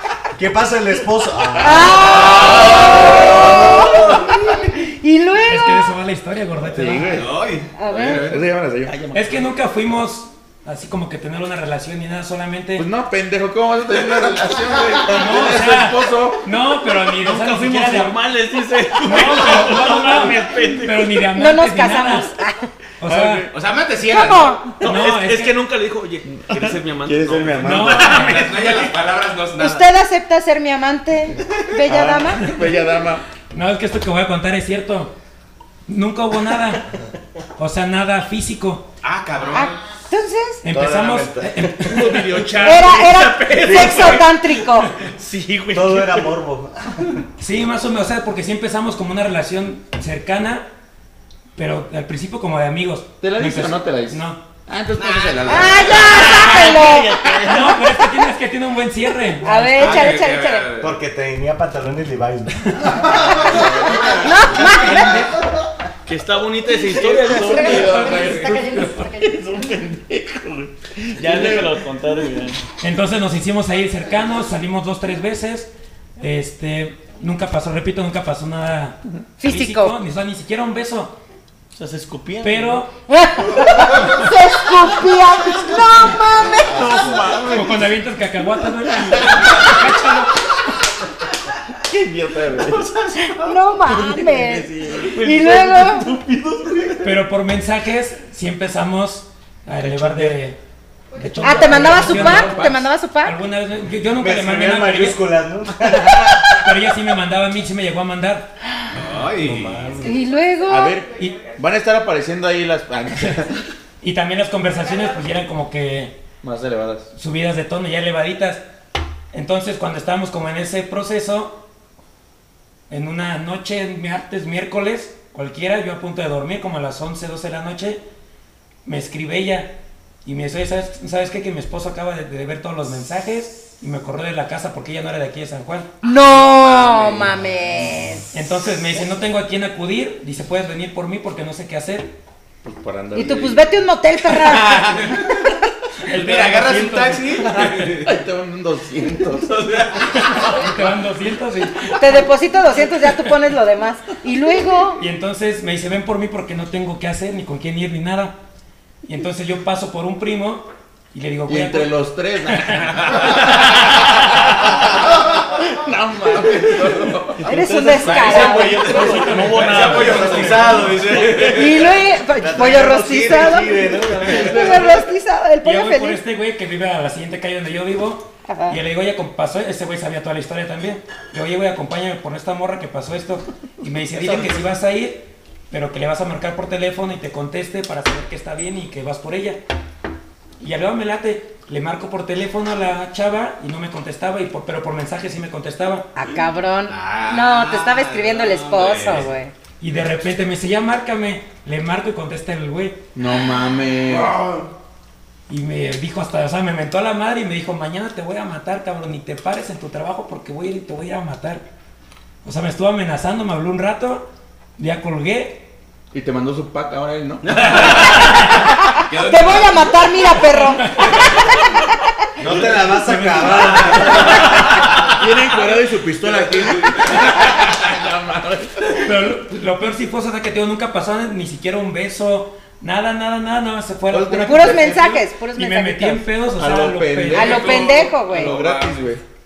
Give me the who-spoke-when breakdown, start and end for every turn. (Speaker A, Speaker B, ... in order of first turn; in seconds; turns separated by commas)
Speaker A: 0.3-4.4, Speaker B: 1.6-5.9, Speaker C: 5.5-7.1, Speaker D: 6.6-7.3, Speaker E: 7.1-8.5, Speaker B: 7.8-8.3, Speaker D: 8.2-8.9, Speaker F: 8.8-9.5, Speaker C: 9.1-12.8, Speaker D: 12.8-16.5, Speaker C: 15.1-18.1, Speaker F: 17.2-21.3, Speaker C: 19.0-22.3, Speaker B: 21.3-22.7, Speaker C: 23.0-23.4, Speaker D: 23.0-23.5, Speaker E: 23.5-24.6, Speaker B: 24.0-24.6, Speaker F: 24.8-28.9, Speaker C: 24.8-25.5, Speaker D: 26.3-28.2, Speaker C: 27.6-28.4, Speaker E: 28.2-29.9, Speaker B: 29.6-32.5, Speaker D: 31.8-33.2, Speaker C: 33.5-35.1, Speaker C: 35.9-36.9, Speaker C: 37.6-38.9, Speaker E: 39.0-39.8, Speaker B: 39.5-40.6, Speaker C: 40.6-42.4, Speaker A: 40.7-41.8, Speaker F: 41.8-46.3, Speaker B: 42.6-44.9, Speaker D: 43.7-44.2, Speaker A: 45.7-47.2, Speaker C: 47.4-50.6, Speaker C: 51.5-54.4, Speaker D: 53.2-56.6, Speaker E: 54.9-56.0, Speaker B: 55.5-57.2, Speaker F: 55.9-57.8, Speaker C: 57.4-60.1, Speaker B: 59.4-60.7, Speaker E: 59.7-61.0, Speaker A: 60.8-63.1, Speaker E: 63.3-65.1, Speaker D: 63.5-64.0, Speaker B: 64.0-65.2, Speaker C: 64.6-65.2, Speaker F: 66.1-67.8, Speaker D: 66.9-72.5, Speaker B: 67.2-69.3, Speaker C: 67.8-68.8, Speaker F: 71.2-72.6, Speaker C: 72.8-81.2, Speaker B: 79.4-80.0, Speaker F: 81.7-82.8, Speaker C: 82.4-82.9, Speaker B: 83.1-87.1, Speaker D: 86.4-87.9, Speaker C: 87.4-90.3, Speaker D: 88.9-89.6, Speaker D: 91.8-93.1, Speaker B: 93.2-96.1, Speaker D: 93.8-97.1, Speaker F: 95.2-96.0, Speaker C: 97.0-100.6, Speaker D: 99.9-100.3, Speaker C: 101.1-105.2, Speaker B: 101.4-103.4, Speaker D: 101.6-102.8, Speaker A: 104.2-106.5, Speaker C: 106.5-108.5, Speaker E: 108.9-109.9, Speaker A: 109.4-110.3, Speaker B: 110.0-110.9, Speaker D: 110.7-113.6, Speaker C: 114.0-116.2, Speaker D: 116.4-117.1, Speaker C: 117.1-118.6, Speaker C: 119.3-121.6, Speaker C: 122.9-128.0, Speaker C: 128.8-135.9, Speaker B: 136.0-138.3, Speaker D: 136.7-137.3, Speaker C: 138.3-142.1, Speaker D: 142.6-143.7, Speaker B: 143.1-145.2, Speaker D: 144.4-144.9, Speaker E: 145.0-145.3, Speaker C: 146.1-147.2, Speaker E: 146.1-148.2, Speaker D: 147.7-149.5, Speaker E: 149.3-150.6, Speaker C: 150.2-151.9, Speaker B: 151.9-155.0, Speaker C: 155.0-158.3, Speaker C: 159.1-161.9, Speaker D: 161.5-162.8, Speaker C: 162.5-163.0, Speaker E: 162.9-163.6, Speaker D: 165.3-169.4, Speaker E: 166.3-167.3, Speaker F: 167.4-171.2, Speaker B: 167.4-168.8, Speaker C: 168.4-170.7, Speaker E: 168.6-171.9, Speaker A: 170.0-170.7, Speaker B: 171.5-176.2, Speaker A: 172.3-174.8, Speaker D: 174.2-175.0, Speaker C: 175.6-189.6, Speaker B: 178.4-178.8, Speaker F: 184.2-184.5, Speaker C: 190.6-196.1, Speaker B: 196.1-199.5, Speaker E: 196.9-199.3, Speaker C: 199.8-203.0, Speaker D: 203.1-204.3, Speaker E: 204.1-204.7, Speaker C: 205.5-211.6, Speaker C: 212.4-214.3, Speaker C: 214.8-215.7, Speaker D: 216.1-217.8, Speaker E: 217.6-218.4, Speaker B: 218.4-221.0, Speaker E: 219.1-220.3, Speaker E: 220.9-221.6, Speaker A: 222.4-224.4, Speaker E: 222.4-222.8, Speaker C: 223.0-224.3, Speaker E: 223.6-224.4, Speaker D: 225.1-228.9, Speaker E: 226.3-227.8, Speaker C: 229.0-237.9, Speaker D: 234.1-235.0, Speaker B: 234.4-236.2, Speaker D: 236.5-239.2, Speaker E: 237.3-239.0, Speaker B: 237.3-238.5